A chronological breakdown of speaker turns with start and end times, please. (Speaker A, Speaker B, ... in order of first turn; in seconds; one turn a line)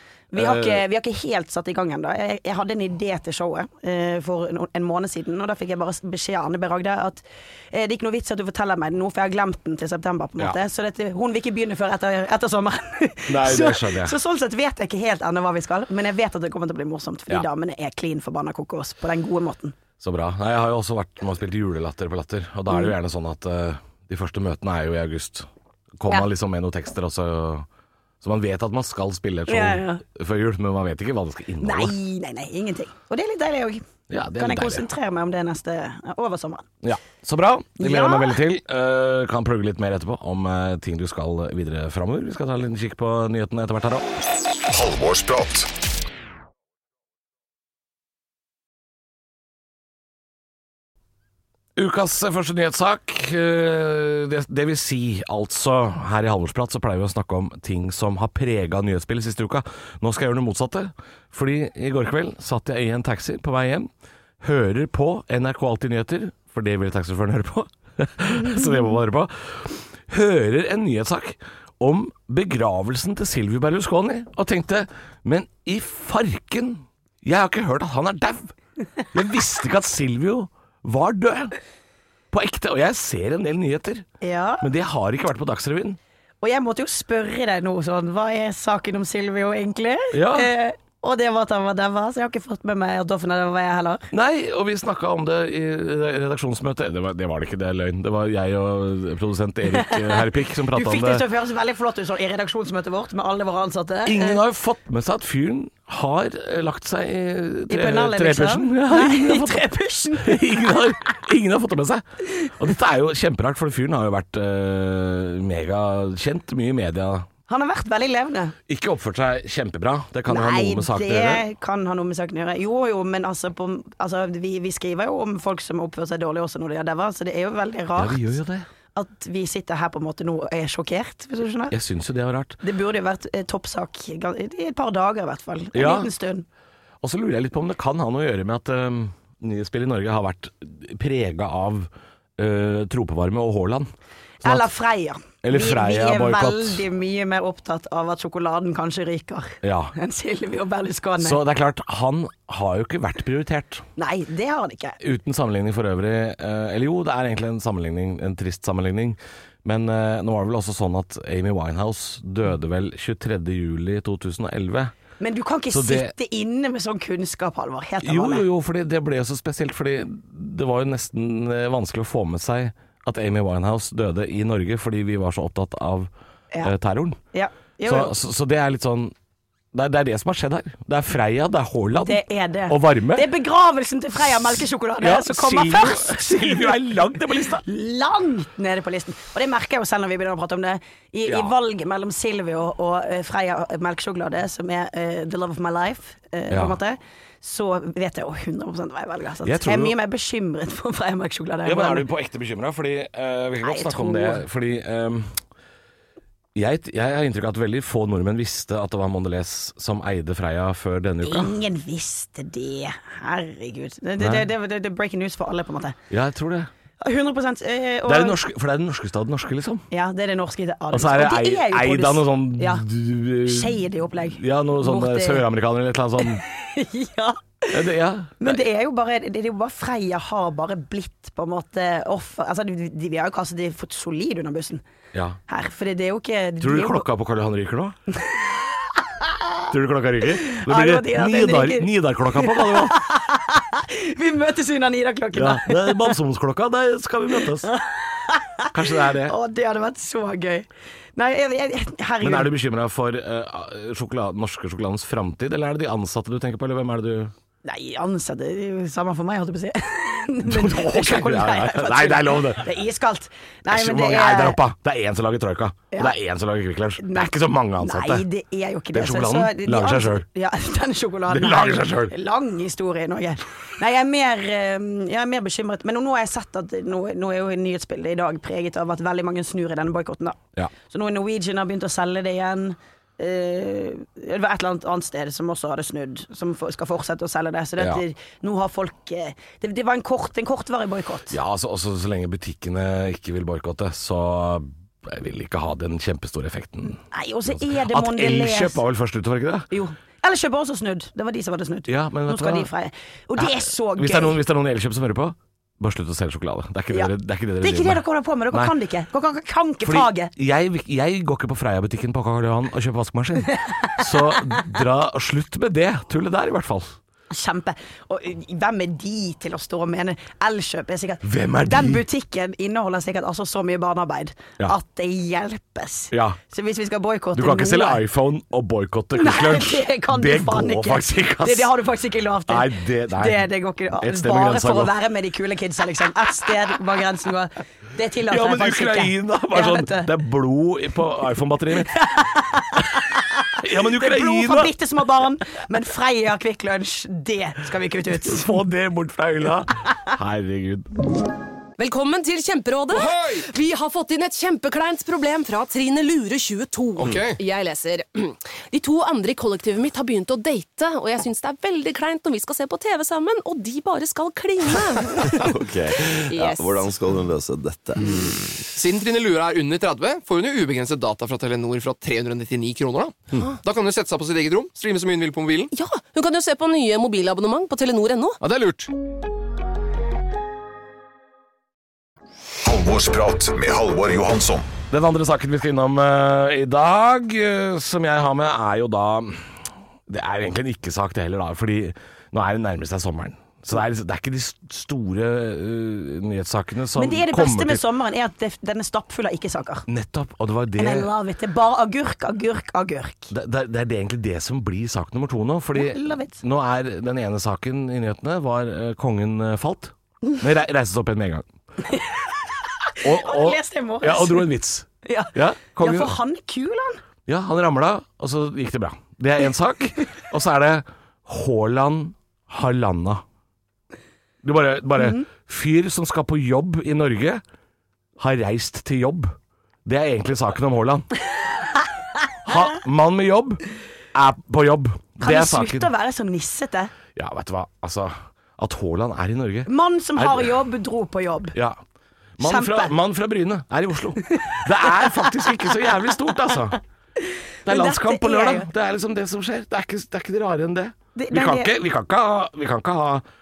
Speaker A: 0.3-19.8
Speaker B: 0.3-0.8
Speaker B: 13.3-14.2
Speaker B: 20.0-25.5
Speaker B: 26.0-27.7
Speaker B: 28.2-31.9
Speaker A: 29.5-30.0
Speaker A: 31.6-33.8
Speaker B: 34.1-34.9
Speaker A: 34.4-36.7
Speaker B: 36.8-44.1
Speaker A: 37.8-38.4
Speaker C: 44.7-45.7
Speaker B: 51.8-63.9
Speaker B: 64.4-78.5
Speaker B: 79.1-81.5
Speaker B: 82.3-84.1
Speaker A: 84.2-84.7
Speaker B: 84.6-86.0
Speaker A: 86.4-94.1
Speaker B: 90.1-90.5
Speaker B: 94.1-101.2
Speaker A: 99.7-104.4
Speaker B: 104.0-117.3
Speaker A: 107.7-110.9
Speaker A: 117.5-118.5
Speaker B: 118.7-121.4
Speaker A: 120.3-128.3
Speaker B: 128.0-128.7
Speaker A: 128.9-131.8
Speaker B: 131.7-132.6
Speaker A: 132.6-136.5
Speaker B: 135.7-136.1
Speaker B: 137.0-143.9
Speaker A: 144.4-151.4
Speaker B: 145.4-146.8
Speaker B: 149.6-149.9
Speaker B: 151.2-153.8
Speaker A: 154.0-155.0
Speaker B: 155.0-164.9
Speaker A: 165.2-168.5
Speaker B: 165.7-166.1
Speaker B: 168.0-176.1
Speaker B: 176.6-177.2
Speaker A: 177.3-178.2
Speaker B: 177.8-179.1
Speaker B: 179.7-183.3
Speaker A: 182.0-186.9
Speaker B: 185.0-187.7
Speaker A: 187.6-202.1
Speaker B: 191.3-191.5
Speaker B: 196.5-196.8
Speaker B: 199.4-200.0
Speaker B: 201.6-205.4
Speaker A: 203.6-204.4
Speaker B: 206.6-211.6
Speaker A: 211.2-216.0
Speaker B: 214.2-214.5
Speaker B: 216.1-216.7
Speaker A: 217.0-218.4
Speaker B: 218.1-219.8
Speaker A: 219.9-222.9
Speaker B: 220.9-223.8
Speaker A: 223.4-225.5
Speaker B: 224.3-226.4
Speaker A: 226.2-227.8
Speaker B: 227.7-228.6
Speaker A: 228.4-234.8
Speaker B: 235.1-235.4
Speaker A: 235.5-237.1
Speaker B: 236.6-238.0
Speaker B: 239.7-243.0
Speaker A: 240.4-246.2
Speaker B: 245.3-247.7
Speaker A: 247.6-252.5
Speaker B: 248.7-249.3
Speaker B: 252.2-257.3
Speaker A: 257.6-264.6
Speaker B: 260.4-262.7
Speaker B: 263.7-268.3
Speaker A: 267.0-291.4
Speaker B: 268.9-270.3
Speaker B: 271.3-272.1
Speaker B: 291.3-299.7
Speaker A: 297.0-298.8
Speaker A: 299.7-304.4
Speaker B: 301.9-302.7
Speaker B: 303.4-308.7
Speaker A: 306.9-310.3
Speaker B: 309.8-317.0
Speaker A: 313.6-314.6
Speaker A: 317.3-328.0
Speaker B: 321.2-322.0
Speaker B: 326.1-326.4
Speaker B: 327.4-331.7
Speaker A: 329.1-340.1
Speaker B: 332.5-333.5
Speaker B: 334.0-334.9
Speaker B: 338.3-341.9
Speaker A: 341.9-348.5
Speaker B: 343.6-344.7
Speaker B: 348.2-350.9
Speaker D: 351.8-365.5
Speaker E: 352.9-353.5
Speaker E: 357.0-357.4
Speaker F: 365.3-368.6
Speaker D: 366.1-366.8
Speaker E: 368.8-375.7
Speaker D: 375.7-378.4
Speaker E: 378.4-378.9
Speaker C: 382.6-384.7
Speaker B: 384.9-397.8
Speaker A: 397.0-399.9
Speaker B: 399.9-401.1
Speaker A: 400.8-403.3
Speaker B: 403.3-411.5
Speaker A: 405.7-406.4
Speaker A: 411.9-412.2
Speaker A: 412.9-414.5
Speaker B: 413.0-416.2
Speaker A: 415.0-417.0
Speaker B: 417.3-423.2
Speaker B: 424.4-427.4
Speaker A: 425.0-425.3
Speaker B: 428.2-431.1
Speaker B: 432.4-433.6
Speaker B: 434.1-435.9
Speaker A: 435.2-436.9
Speaker B: 437.2-440.6
Speaker A: 439.7-441.6
Speaker B: 441.5-441.8
Speaker B: 442.4-446.8
Speaker A: 442.4-442.9
Speaker A: 444.3-445.5
Speaker A: 447.2-448.7
Speaker B: 447.7-453.2
Speaker A: 451.1-451.8